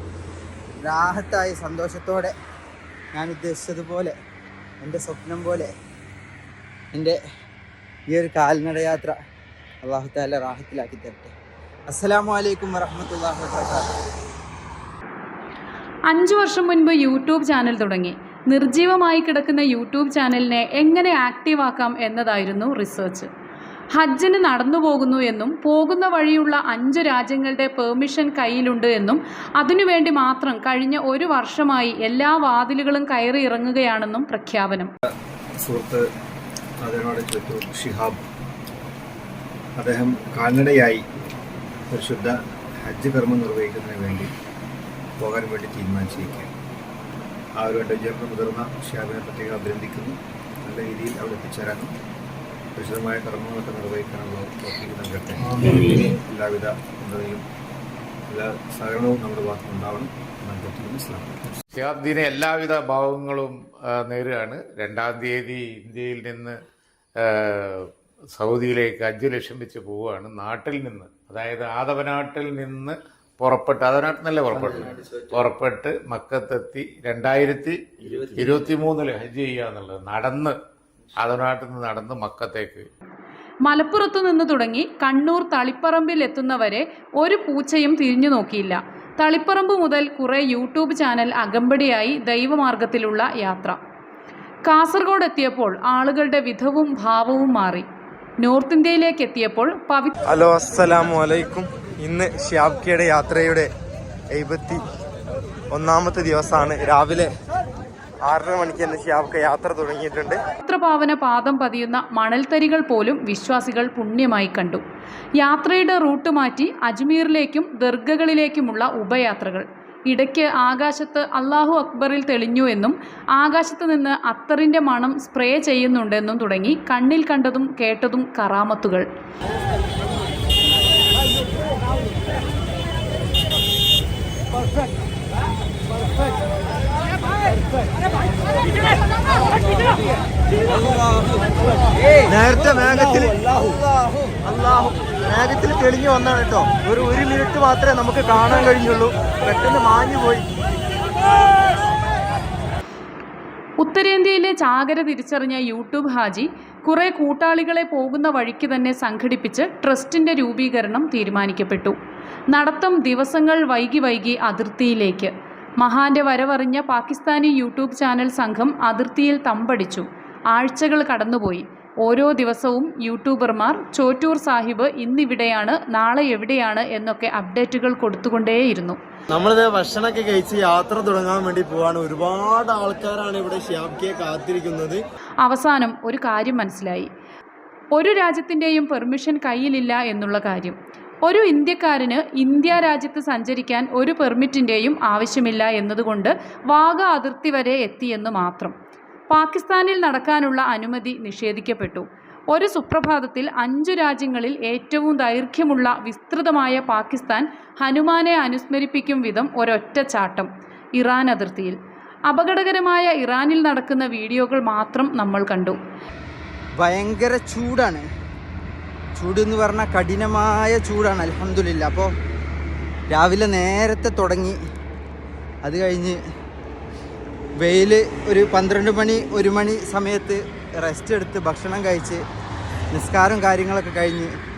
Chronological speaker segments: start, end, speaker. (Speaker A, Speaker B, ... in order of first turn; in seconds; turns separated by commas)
Speaker A: 0.8-2.3, Speaker A: 3.1-4.1, Speaker A: 4.8-5.7, Speaker A: 8.1-9.1, Speaker A: 9.8-11.3, Speaker A: 11.9-13.9, Speaker B: 16.1-23.3, Speaker B: 23.9-34.9, Speaker C: 35.6-36.0, Speaker C: 36.8-38.2, Speaker C: 39.8-41.0, Speaker C: 41.9-44.3, Speaker C: 45.2-46.5, Speaker C: 47.6-51.9, Speaker C: 52.8-57.4, Speaker C: 58.3-61.5, Speaker D: 61.7-66.6, Speaker D: 67.2-80.5, Speaker D: 81.2-82.8, Speaker B: 83.6-93.8, Speaker B: 94.7-97.9, Speaker B: 98.4-100.1, Speaker E: 100.3-103.7, Speaker E: 104.3-104.8, Speaker E: 105.7-107.3, Speaker E: 108.2-110.4, Speaker B: 110.6-114.8, Speaker B: 115.4-129.1, Speaker E: 142.3-143.3, Speaker E: 144.5-150.4, Speaker B: 153.8-162.0, Speaker B: 162.5-179.0, Speaker E: 179.3-185.0, Speaker B: 185.4-187.1, Speaker B: 187.9-198.7, Speaker B: 199.3-215.8, Speaker A: 216.8-218.0, Speaker A: 219.2-222.1, Speaker A: 223.1-224.6, Speaker A: 225.6-226.2, Speaker A: 227.6-232.2, Speaker A: 232.9-234.3